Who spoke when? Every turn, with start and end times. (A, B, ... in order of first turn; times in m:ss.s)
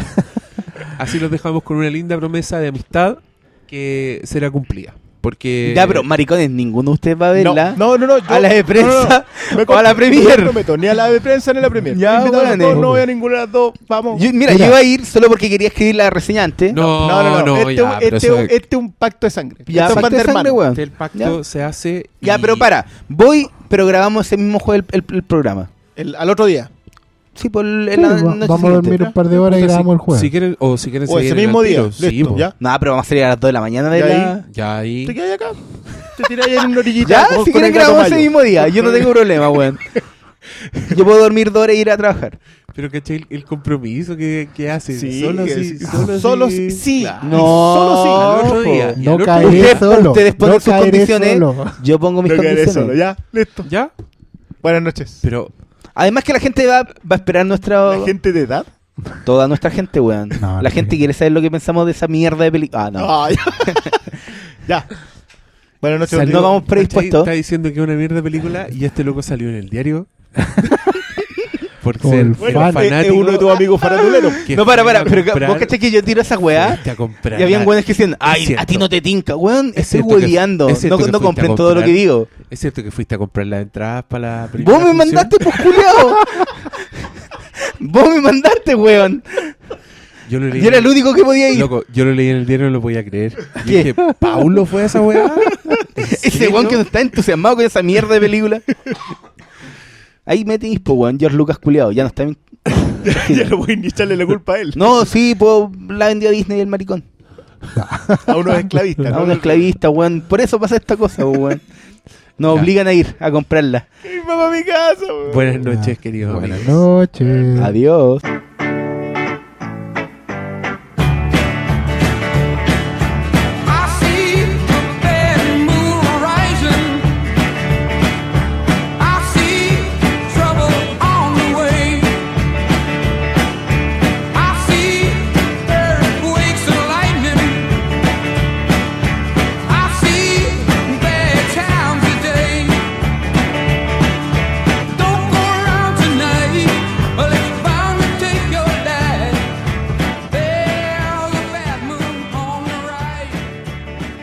0:00.9-0:06.1 A
0:05.6-0:10.9 B
0:07.4-0:14.3 C
0:11.9-0:12.9 B
0:14.1-0:16.8 B
0:14.5-0:14.8 D
0:16.7-0:18.6 A
0:16.7-0:20.6 C
0:19.7-0:21.4 B
0:19.8-0:20.1 A
0:20.7-0:22.7 A
0:22.2-0:25.7 B
0:26.0-0:26.7 C
0:27.4-0:29.1 B
0:28.0-0:30.3 D
0:29.3-0:32.5 A
0:31.1-0:32.6 C
0:32.6-0:34.4 B
0:33.9-0:34.4 C
0:34.5-0:35.2 A
0:35.0-0:39.6 C
0:36.9-0:39.8 B
0:40.7-0:41.0 C
0:40.9-0:42.4 B
0:42.7-0:47.6 A
0:44.9-0:48.5 C
0:47.2-0:53.0 B
0:48.1-0:49.8 A
0:49.0-0:51.8 D
0:52.3-0:53.7 C
0:53.6-0:53.9 A
0:54.6-0:55.2 C
0:55.2-0:55.5 A
0:56.0-0:58.1 B
0:57.9-0:58.7 C
0:59.2-1:03.9 B
1:00.4-1:01.0 D
1:03.0-1:04.1 C
1:04.6-1:05.0 C
1:05.8-1:06.6 C
1:06.1-1:10.1 A
1:06.2-1:07.3 B
1:11.8-1:13.6 A
1:12.0-1:13.0 D
1:12.4-1:14.5 C
1:13.8-1:22.3 B
1:14.4-1:15.8 A
1:16.5-1:18.9 A
1:19.8-1:25.5 A
1:24.6-1:29.6 B
1:30.3-1:31.0 A
1:30.6-1:31.7 B
1:31.5-1:36.8 A
1:33.6-1:33.9 B
1:35.4-1:38.7 B
1:40.3-1:43.5 B
1:43.0-1:45.0 C
1:44.8-1:47.0 B
1:47.7-1:49.0 D
1:48.3-1:49.7 C
1:49.1-1:51.6 B
1:52.4-1:53.9 B
1:52.5-1:52.7 A
1:54.0-1:55.6 C
1:55.3-1:56.8 A
1:55.6-1:57.8 D
1:56.3-1:56.6 B
1:57.6-1:58.2 B
2:03.6-2:07.3 E
2:09.0-2:12.3 E
2:14.3-2:17.9 E
2:19.6-2:23.0 E
2:24.9-2:29.6 E
2:30.3-2:33.5 E